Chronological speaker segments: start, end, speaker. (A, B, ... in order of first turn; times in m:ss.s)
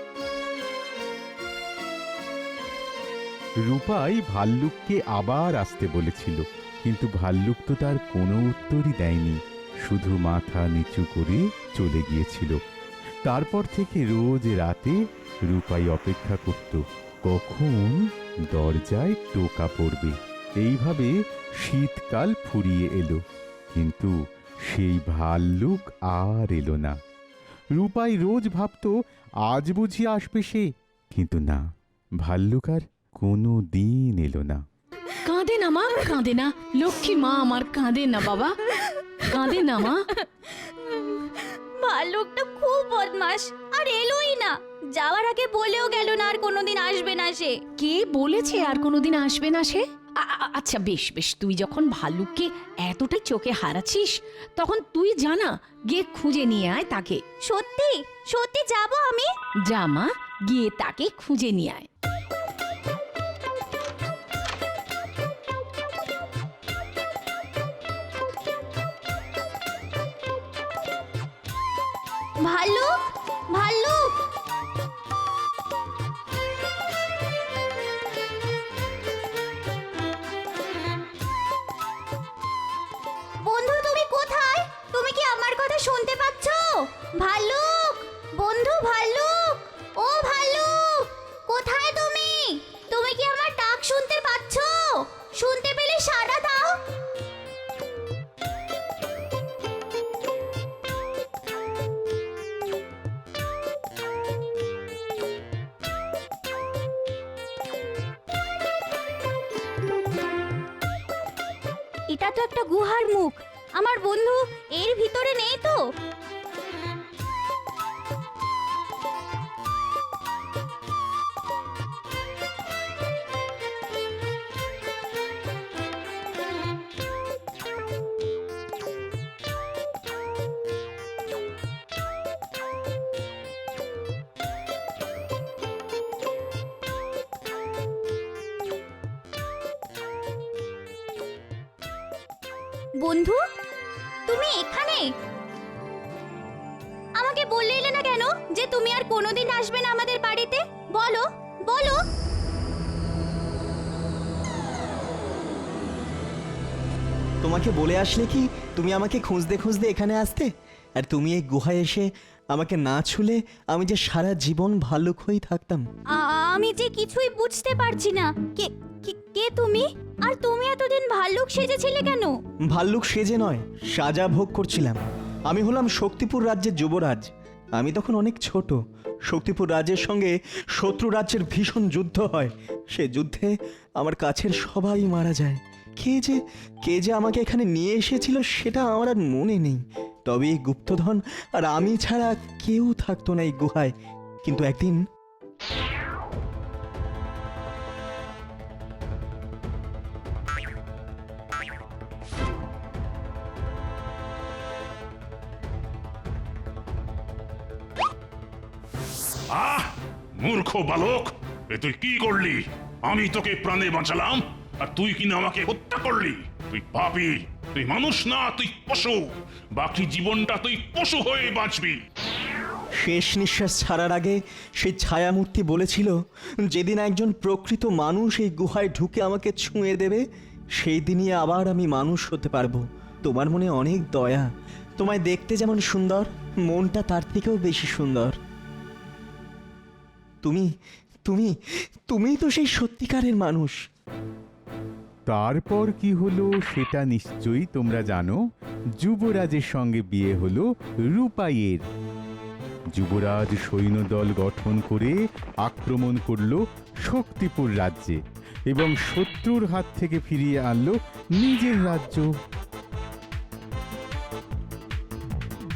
0:03.6-0:12.6 A
0:13.2-0:18.0 A
0:18.5-0:23.2 A
0:23.7-0:24.1 A
0:24.7-0:26.9 A
0:27.8-0:28.9 A
0:29.5-0:31.6 A
0:32.2-0:34.6 A
0:35.2-0:38.6 B
0:38.8-0:39.0 C
0:39.2-0:40.1 B
0:40.2-0:47.6 C
0:47.8-0:57.2 B
0:57.5-0:59.3 C
0:59.7-1:01.8 B
1:12.4-1:13.0 C
1:13.5-1:14.1 C
1:23.4-1:36.8 C
1:52.1-1:55.8 C
2:23.0-2:23.4 C
2:24.3-2:25.1 C
2:27.2-2:32.0 C
2:37.4-2:45.8 D
2:46.1-2:52.3 C
2:52.7-3:15.0 D
3:29.5-3:42.0 E
3:43.0-3:50.2 D
3:50.7-3:54.4 D
3:55.0-3:58.4 D
4:00.4-4:00.7 D
4:01.2-4:01.5 D
4:02.1-4:03.8 D
4:05.3-4:08.4 A
4:09.0-4:11.8 A
4:12.9-4:22.3 A